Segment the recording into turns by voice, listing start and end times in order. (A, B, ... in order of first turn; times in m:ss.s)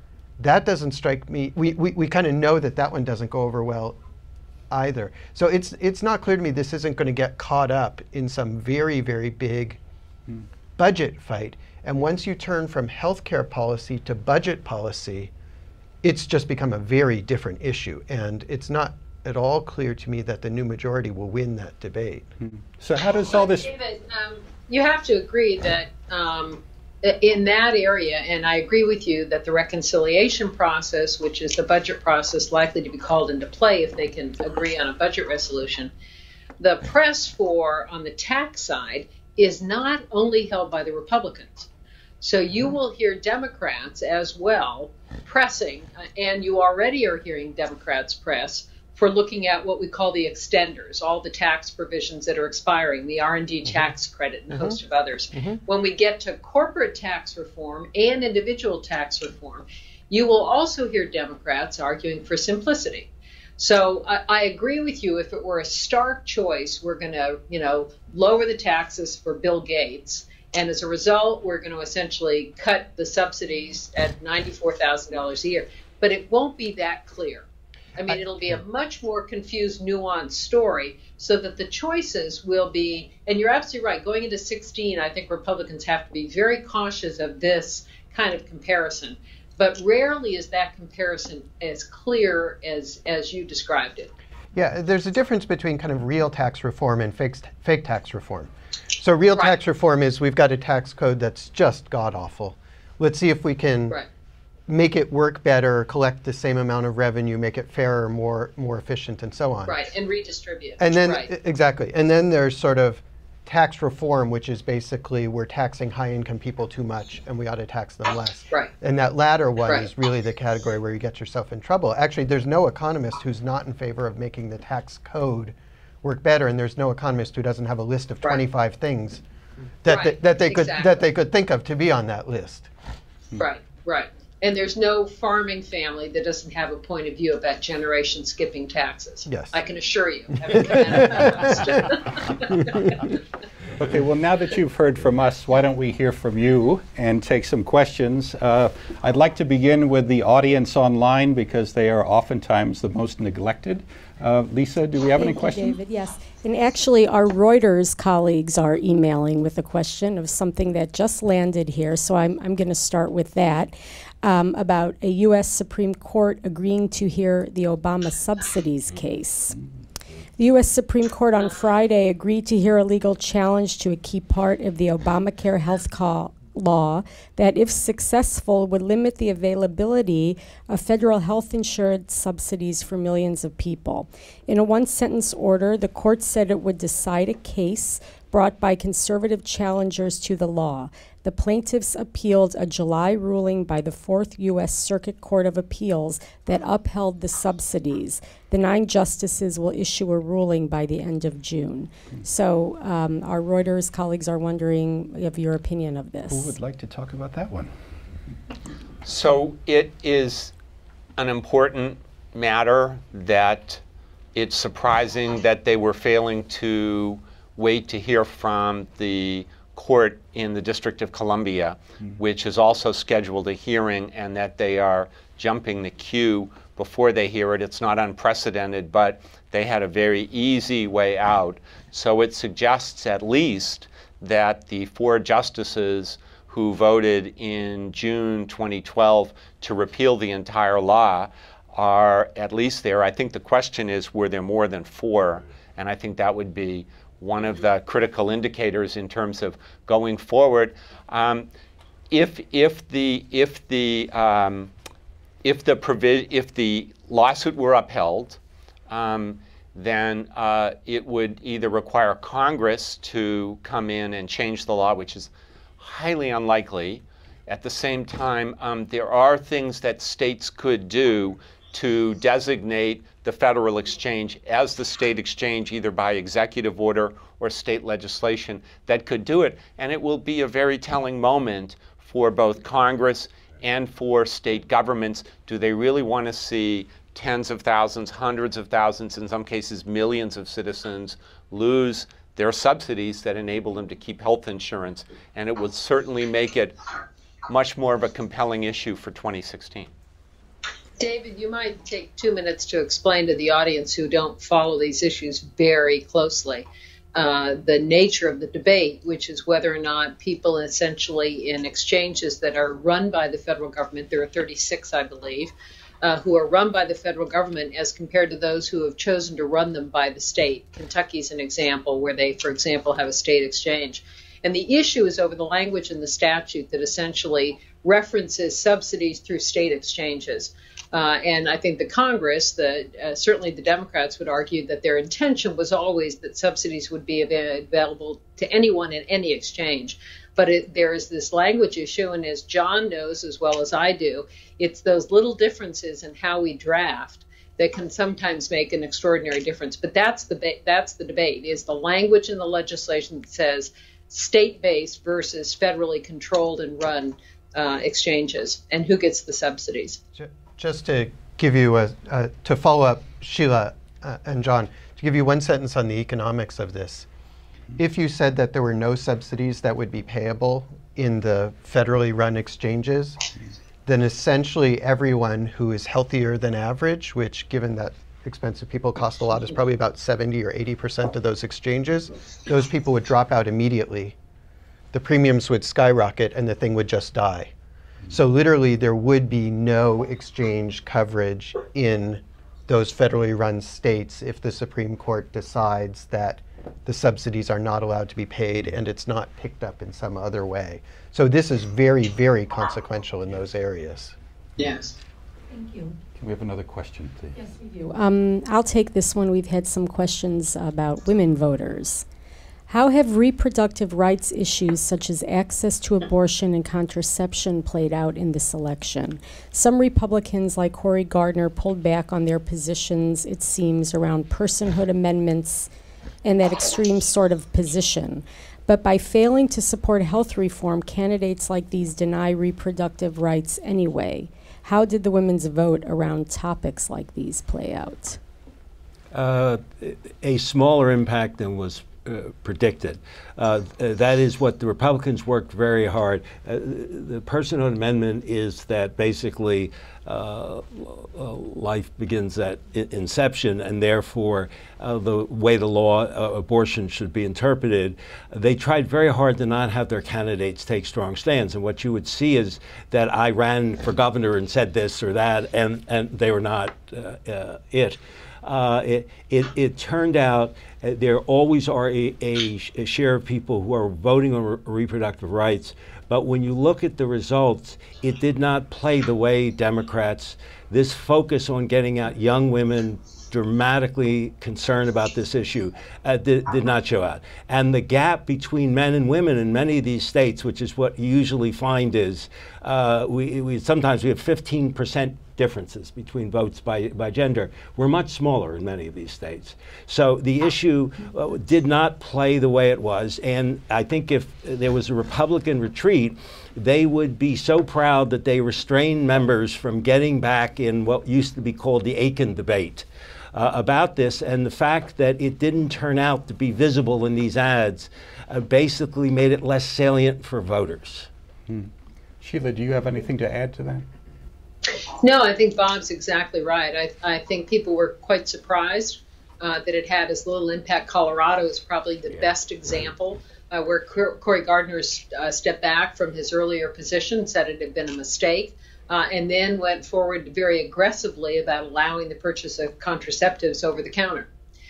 0:00.4-0:04.0 A
0:04.7-0:09.8 A
0:10.8-0:15.3 A
0:16.0-0:22.3 A
0:22.4-0:23.7 B
0:23.5-0:35.9 C
0:36.6-0:41.7 C
0:42.2-1:17.4 C
1:18.0-1:34.1 C
1:34.5-1:44.0 A
1:44.7-1:49.8 A
1:49.7-1:51.3 C
1:50.8-2:09.2 A
2:09.8-2:12.7 A
2:09.9-2:10.9 C
2:13.4-2:23.0 C
2:19.3-2:19.5 A
2:23.8-2:35.8 B
2:35.2-2:49.6 D
2:50.4-3:26.5 D
3:26.3-3:27.7 B
3:29.0-3:30.5 E
3:31.2-3:33.8 E
3:34.3-4:11.5 E
4:12.1-4:14.7 E
4:15.4-4:56.8 E
4:57.5-4:59.9 E
5:01.0-6:00.0 C
6:00.1-6:07.1 A
6:07.8-6:13.2 A
6:13.8-6:24.2 A
6:24.9-6:27.5 A
6:28.1-6:44.1 A
6:44.6-6:44.9 C
6:46.2-6:47.5 B
6:47.7-6:52.0 D
6:52.7-7:05.7 D
7:06.2-7:18.2 D
7:19.1-8:41.1 F
8:41.5-8:43.9 B
8:45.0-9:04.3 C